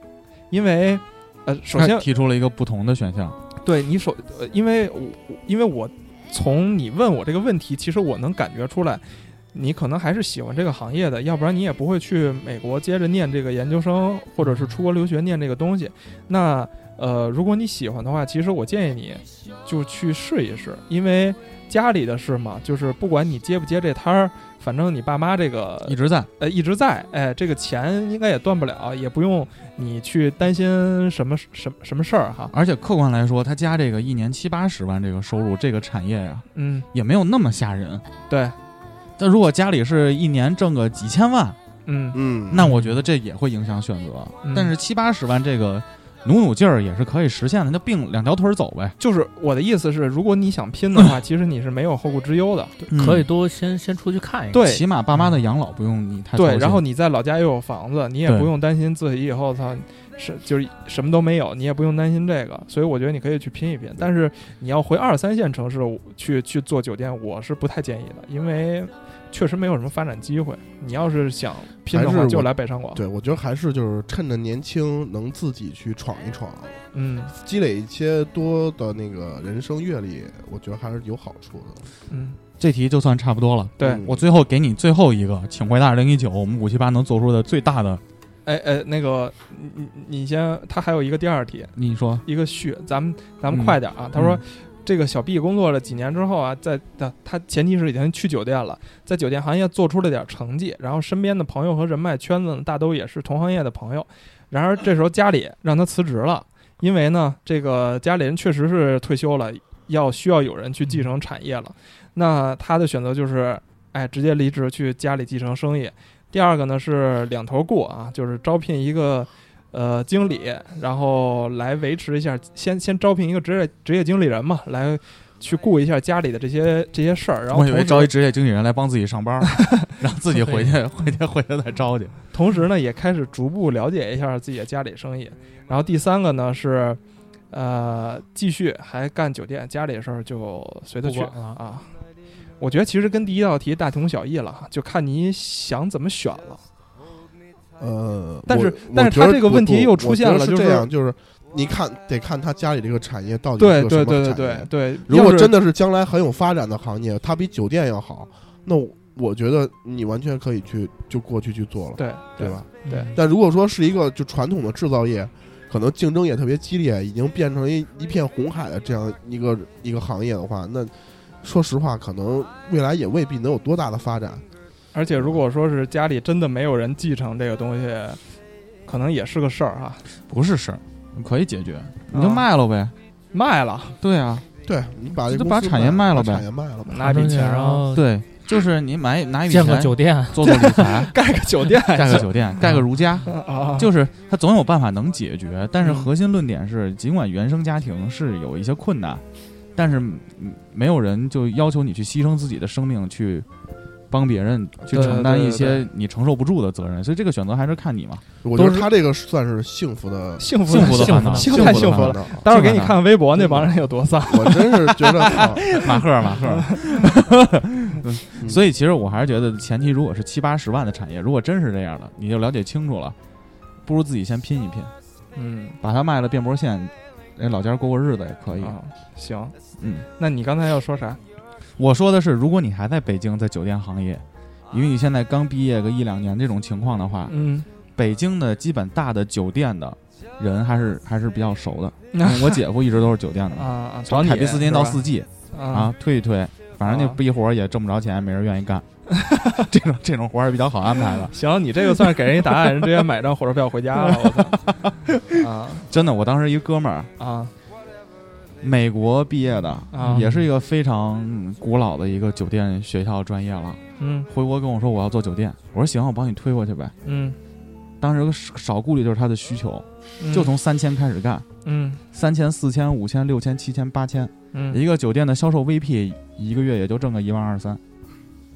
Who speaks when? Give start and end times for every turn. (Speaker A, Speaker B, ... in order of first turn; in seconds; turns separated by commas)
Speaker A: 0.5-2.1, Speaker B: 1.8-3.4, Speaker A: 3.6-32.5, Speaker C: 14.4-14.8, Speaker B: 25.9-26.3, Speaker B: 32.5-38.0, Speaker A: 36.5-36.9, Speaker A: 38.3-38.6, Speaker B: 39.2-41.6, Speaker A: 41.9-42.2, Speaker D: 42.1-42.6, Speaker B: 42.5-49.0, Speaker C: 42.6-43.0, Speaker A: 44.4-44.7, Speaker A: 49.0-52.8, Speaker B: 52.9-53.3, Speaker C: 52.9-54.6, Speaker A: 54.5-54.8, Speaker B: 54.6-56.8, Speaker A: 56.4-73.0, Speaker D: 71.9-76.8, Speaker A: 76.9-77.3, Speaker D: 77.4-81.8, Speaker A: 82.1-82.4, Speaker B: 82.6-88.0, Speaker D: 83.8-84.3, Speaker A: 88.4-91.7, Speaker B: 91.8-92.2, Speaker A: 92.2-128.1, Speaker B: 93.5-94.4, Speaker B: 127.5-132.1, Speaker C: 130.4-130.7, Speaker A: 132.3-137.0, Speaker A: 137.5-141.9, Speaker C: 141.0-141.6, Speaker A: 142.6-146.6, Speaker D: 147.8-174.4, Speaker A: 148.5-150.9, Speaker A: 153.6-155.6, Speaker A: 162.0-163.1, Speaker C: 162.9-163.2, Speaker A: 174.9-178.2, Speaker A: 178.9-180.0, Speaker B: 180.3-182.9, Speaker A: 182.1-182.4, Speaker A: 183.3-183.9, Speaker B: 184.0-184.4, Speaker D: 184.6-187.6, Speaker B: 185.3-186.4, Speaker A: 186.9-187.8, Speaker C: 187.0-188.1, Speaker B: 187.9-191.2, Speaker C: 189.5-191.0, Speaker A: 190.4-192.3, Speaker B: 191.9-199.2, Speaker C: 192.6-193.3, Speaker A: 193.2-193.9, Speaker A: 195.8-196.1, Speaker B: 199.8-203.4, Speaker B: 204.1-208.2, Speaker A: 204.9-205.8, Speaker D: 208.4-212.5, Speaker C: 208.6-208.9, Speaker A: 210.4-215.8, Speaker B: 210.7-213.0, Speaker C: 210.7-211.8, Speaker D: 213.4-213.7, Speaker D: 214.2-215.7, Speaker B: 215.3-223.2, Speaker A: 216.3-217.1, Speaker B: 223.8-224.9, Speaker A: 225.3-225.8, Speaker B: 225.8-228.8, Speaker A: 228.6-229.6, Speaker B: 229.8-230.1, Speaker A: 230.2-231.2, Speaker B: 231.8-237.3, Speaker A: 237.3-237.7, Speaker B: 237.9-248.9, Speaker A: 242.1-242.6, Speaker A: 243.6-245.9, Speaker A: 246.8-247.2, Speaker A: 249.1-249.6, Speaker B: 249.5-251.3, Speaker A: 251.3-254.6, Speaker B: 254.5-257.1, Speaker A: 255.3-255.8, Speaker A: 257.2-257.5, Speaker B: 258.6-266.9, Speaker A: 259.9-260.2, Speaker C: 260.0-260.5, Speaker A: 264.0-264.3, Speaker A: 267.0-267.4, Speaker B: 268.0-271.4, Speaker A: 270.2-270.5, Speaker A: 271.6-272.0, Speaker B: 272.1-277.8, Speaker A: 274.5-274.8